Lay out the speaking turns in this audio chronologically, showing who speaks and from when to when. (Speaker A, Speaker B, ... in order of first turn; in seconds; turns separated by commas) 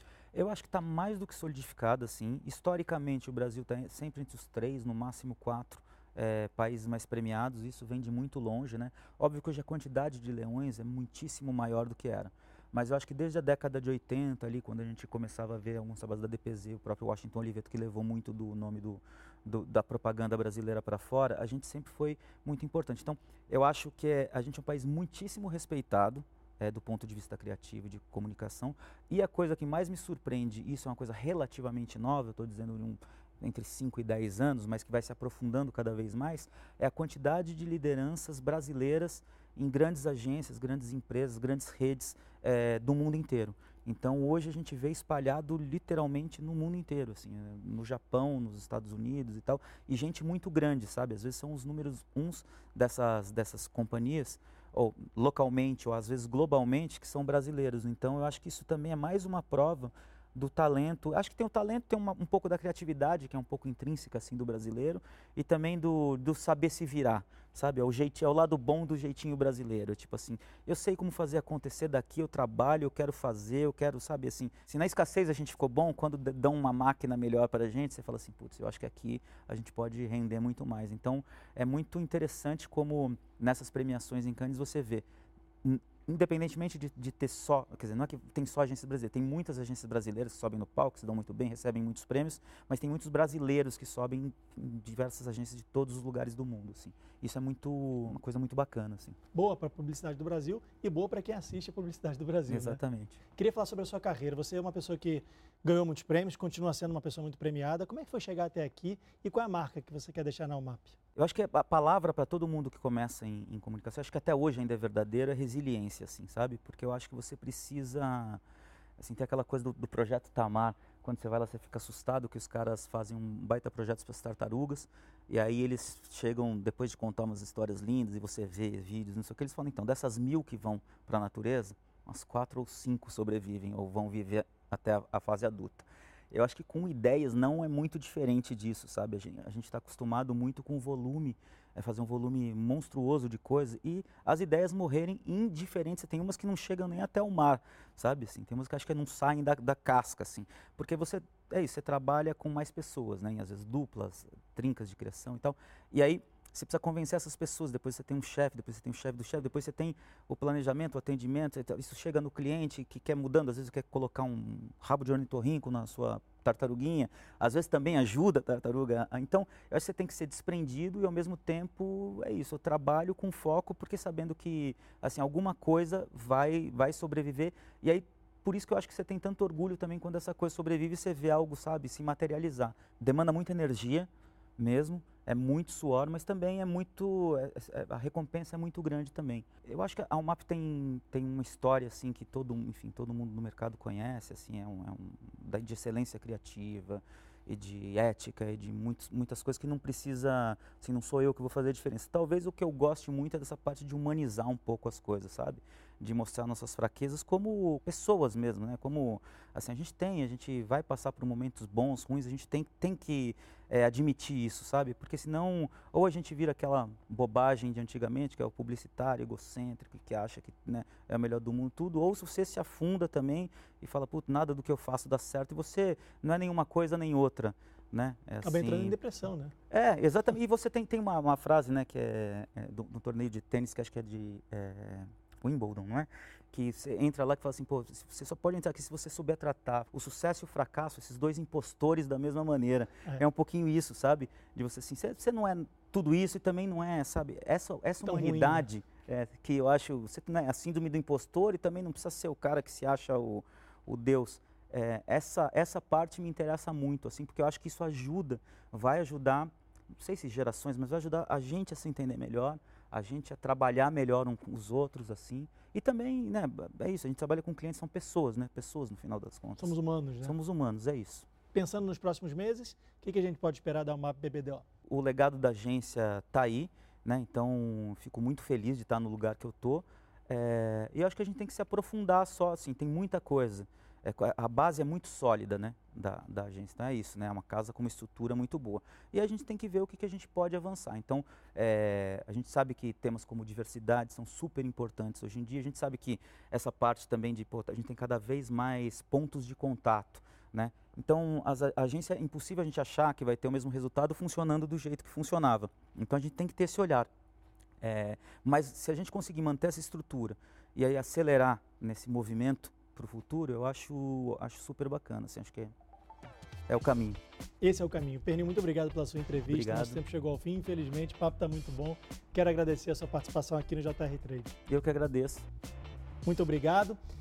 Speaker A: 0.3-85.0, Speaker A: 85.6-99.2, Speaker B: 99.3-102.8, Speaker A: 102.5-103.2, Speaker B: 103.3-111.0, Speaker A: 111.2-118.4, Speaker A: 119.0-228.9, Speaker B: 228.4-229.5, Speaker A: 229.7-271.3, Speaker B: 248.0-248.7, Speaker B: 269.6-270.4, Speaker B: 271.5-274.6, Speaker A: 274.9-307.1, Speaker A: 307.8-315.7, Speaker A: 316.7-317.2, Speaker B: 317.6-324.5, Speaker A: 319.5-320.0, Speaker A: 324.7-325.4, Speaker B: 326.2-327.0